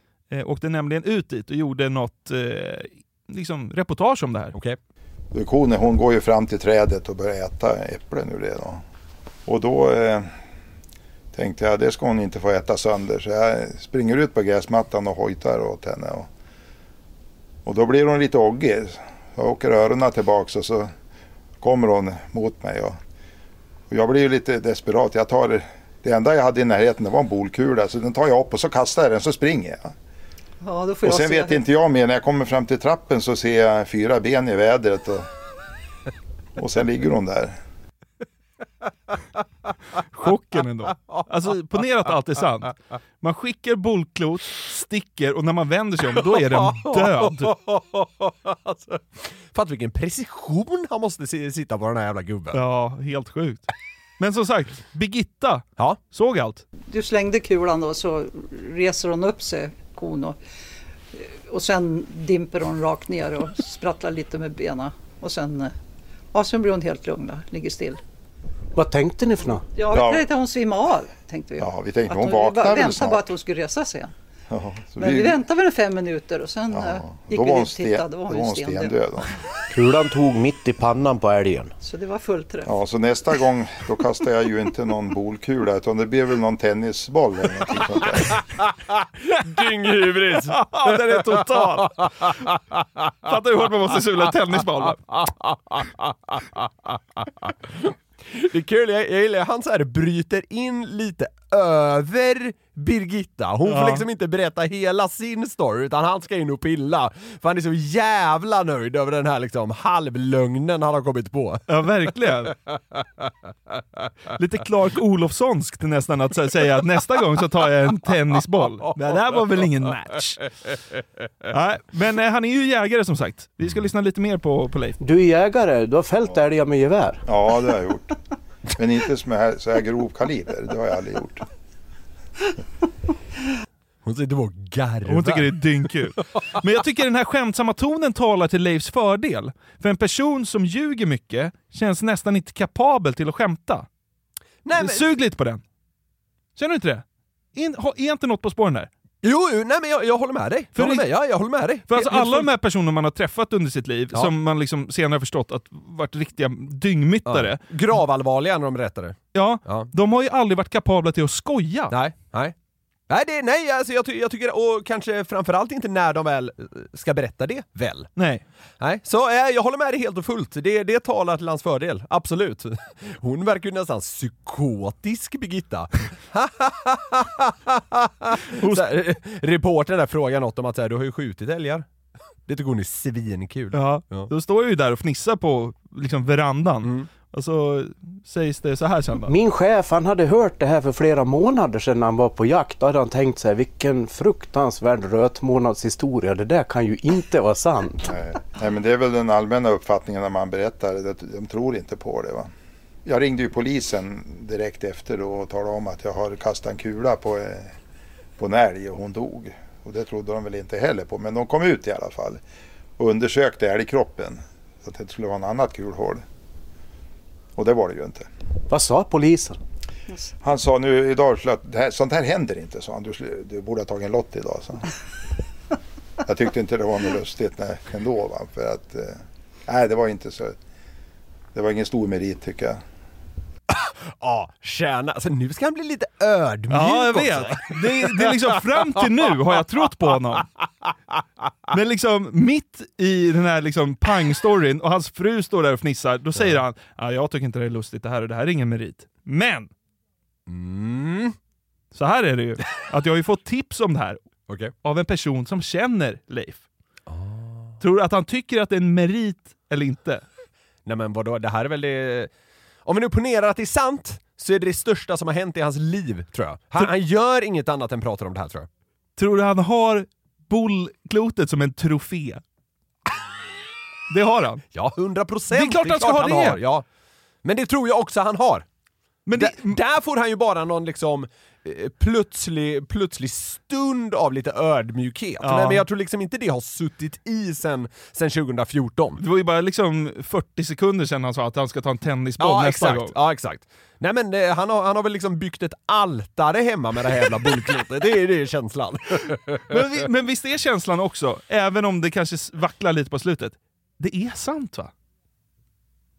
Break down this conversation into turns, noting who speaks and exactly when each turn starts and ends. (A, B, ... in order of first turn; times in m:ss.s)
0:00.3-0:04.6 A
0:05.3-0:08.8 B
0:09.5-0:10.3 B
0:11.3-0:16.3 B
0:17.7-0:20.9 B
0:21.6-0:23.0 B
0:23.9-0:29.9 B
0:30.6-0:31.6 C
0:31.0-0:35.2 B
0:36.6-0:37.6 B
0:40.1-0:47.5 A
0:46.2-0:52.6 D
0:52.5-0:56.6 A
0:56.9-1:00.4 C
1:01.2-1:05.7 C
1:06.3-1:08.0 C
1:08.8-1:09.7 E
1:09.8-1:14.1 C
1:09.9-1:10.2 B
1:11.6-1:13.2 B
1:14.5-1:15.4 B
1:15.0-1:19.0 C
1:16.7-1:19.3 B
1:19.7-1:21.7 E
1:21.8-1:22.7 C
1:22.7-1:28.4 B
1:29.3-1:31.2 D
1:30.5-1:32.4 A
1:33.2-1:35.1 A
1:35.3-1:51.7 D
1:43.6-1:44.1 A
1:51.7-1:52.6 A
1:54.4-2:00.5 A
2:01.5-2:05.0 A
2:05.0-2:07.2 E
2:07.2-2:08.1 B
2:08.7-2:11.4 B
2:14.0-2:15.5 D
2:15.1-2:23.9 A
2:24.6-2:25.1 D
2:24.8-2:25.6 A
2:26.6-2:27.0 A
2:27.6-2:28.9 A
2:29.2-2:32.5 D
2:30.8-2:31.1 A
2:31.9-2:37.6 A
2:37.3-2:39.9 D
2:39.3-2:41.9 A
2:41.9-2:42.6 D
2:43.1-2:48.1 D
2:48.2-2:48.4 A
2:48.8-3:01.9 D
2:58.6-2:59.0 A
3:02.5-3:04.3 D
3:03.7-3:09.3 A
3:06.8-3:07.1 D
3:09.3-3:18.2 E
3:18.0-3:22.5 B
3:23.1-3:27.8 B
3:28.4-3:32.4 B
3:33.0-3:36.2 B
3:37.6-3:38.3 B
3:38.7-3:39.6 E
3:40.4-3:44.9 B
3:46.3-3:50.6 B
3:51.6-3:52.8 B
3:53.7-3:58.3 D
3:56.7-4:00.5 A
4:01.7-4:09.7 A
4:10.5-4:11.4 D
4:11.9-4:14.2 A
4:14.5-4:14.7 D
4:14.8-4:16.6 A
4:17.1-4:17.8 D
4:17.8-4:20.2 A
4:20.9-4:22.3 D
4:22.9-4:28.7 D
4:29.2-4:32.4 A
4:34.1-4:34.6 A
4:34.7-4:36.8 D
4:35.5-4:36.6 A
4:37.4-4:38.7 D
4:39.3-4:39.8 A
4:39.4-4:49.2 D
4:45.4-4:45.8 A
4:49.2-4:53.2 A
4:52.4-4:59.8 D
4:59.7-5:04.9 A